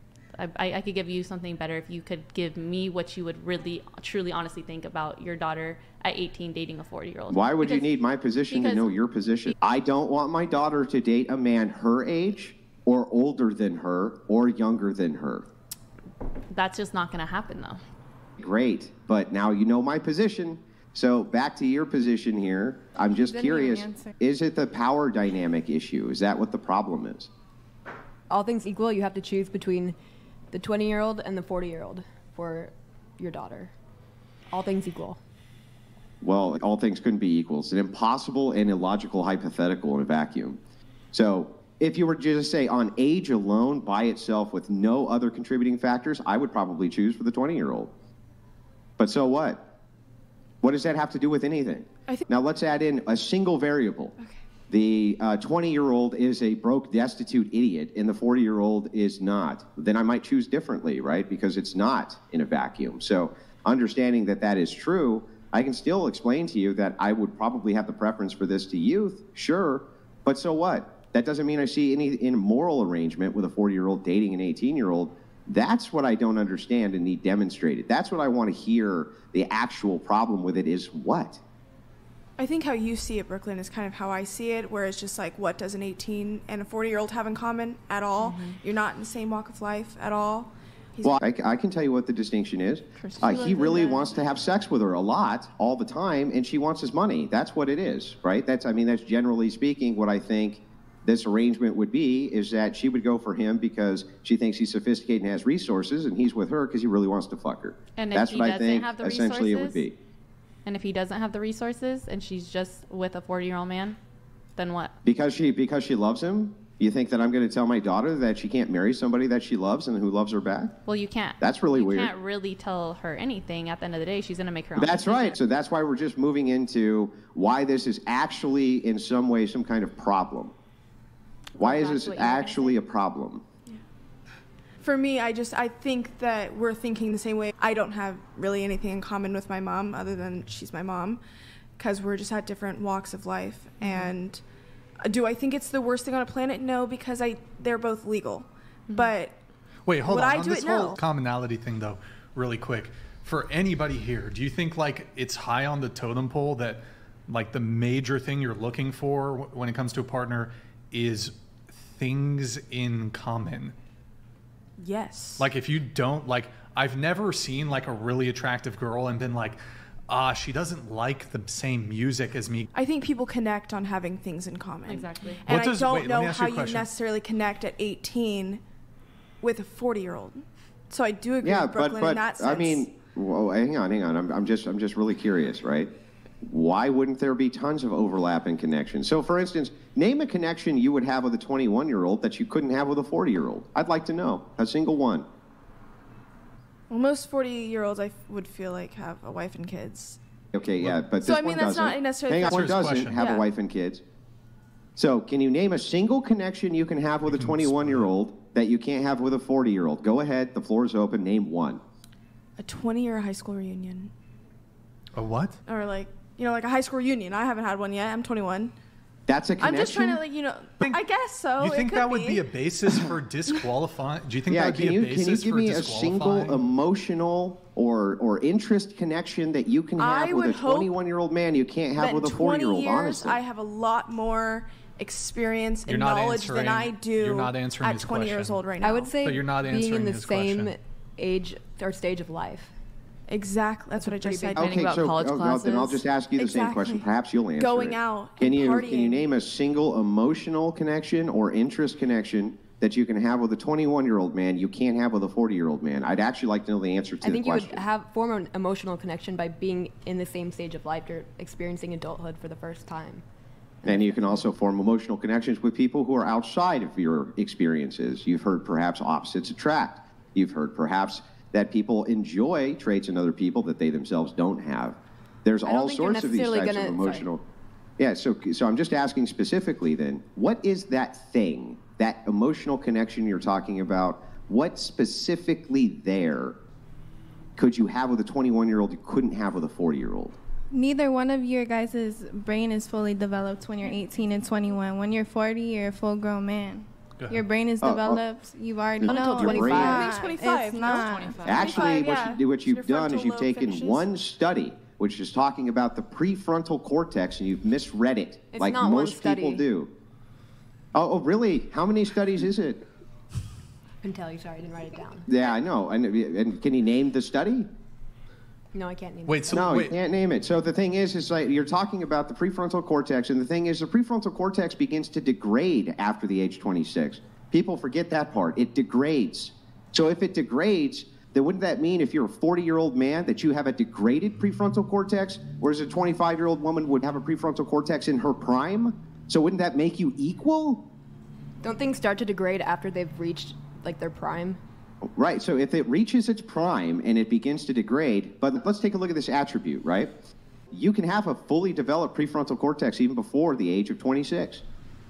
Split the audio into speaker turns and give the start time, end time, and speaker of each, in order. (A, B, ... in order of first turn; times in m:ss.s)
0:00.3-0:07.9 A
0:07.3-0:15.5 B
0:08.5-0:09.5 A
0:16.5-0:17.8 A
0:18.4-0:27.3 B
0:23.1-0:24.1 C
0:28.3-0:30.0 D
0:30.5-0:33.7 D
0:34.5-0:35.2 D
0:36.2-0:40.6 B
0:41.1-0:47.9 B
0:49.0-0:49.7 B
0:50.6-0:54.1 B
0:54.7-1:21.4 B
1:22.4-1:31.2 E
1:28.2-1:28.5 A
1:31.0-1:50.0 B
1:33.0-1:34.1 E
1:48.0-1:49.8 A
1:50.6-1:54.0 A
1:54.6-1:54.9 A
1:55.0-2:00.7 B
2:00.8-2:05.4 A
2:01.4-2:02.1 B
2:04.8-2:10.5 B
2:11.6-2:13.4 B
2:11.6-2:12.8 A
2:14.8-2:21.2 E
2:21.8-2:24.4 E
2:23.8-2:24.1 A
2:25.0-2:29.4 E
2:28.9-2:29.1 A
2:29.8-2:43.7 F
2:30.1-2:31.0 E
2:44.8-2:45.4 E
2:45.4-2:52.7 F
2:52.7-2:58.6 E
2:54.8-2:55.4 A
2:55.5-2:56.9 F
2:59.4-3:02.9 E
3:01.4-3:05.9 B
3:06.4-3:15.3 B
3:16.9-3:20.2 E
3:20.5-3:24.0 B
3:21.2-3:23.4 E
3:22.5-3:23.2 F
3:25.0-3:31.8 B
3:27.3-3:28.1 F
3:32.6-3:34.1 E
3:35.1-3:35.6 F
3:35.6-3:38.7 E
3:39.3-3:40.2 B
3:39.6-3:43.0 E
3:40.8-3:41.0 F
3:41.6-3:46.6 F
3:44.5-3:53.4 B
3:50.0-3:50.9 E
3:52.0-3:59.1 E
3:55.8-3:58.6 F
3:58.8-4:02.7 D
3:59.2-4:00.7 F
4:03.3-4:05.0 E
4:04.0-4:04.6 D
4:04.6-4:17.8 B
4:04.6-4:06.0 A
4:06.4-4:07.0 E
4:07.6-4:09.2 E
4:17.2-4:23.2 D
4:23.8-4:24.5 D
4:23.8-4:37.4 B
4:35.6-4:37.3 D
4:38.0-4:46.6 B
4:47.6-4:50.4 B
4:50.7-5:02.0 C
4:57.8-4:58.2 B
4:59.0-5:00.0 B
4:59.0-5:04.1 E
4:59.3-5:00.3 D
5:01.4-5:09.9 B
5:08.5-5:09.6 D
5:10.9-5:12.8 B
5:14.0-5:15.3 D
5:15.2-5:17.7 B
5:18.7-5:19.7 D
5:19.3-5:20.0 F
5:19.5-5:40.9 B
5:41.6-5:44.6 D
5:45.1-5:50.1 B
5:50.7-5:54.6 B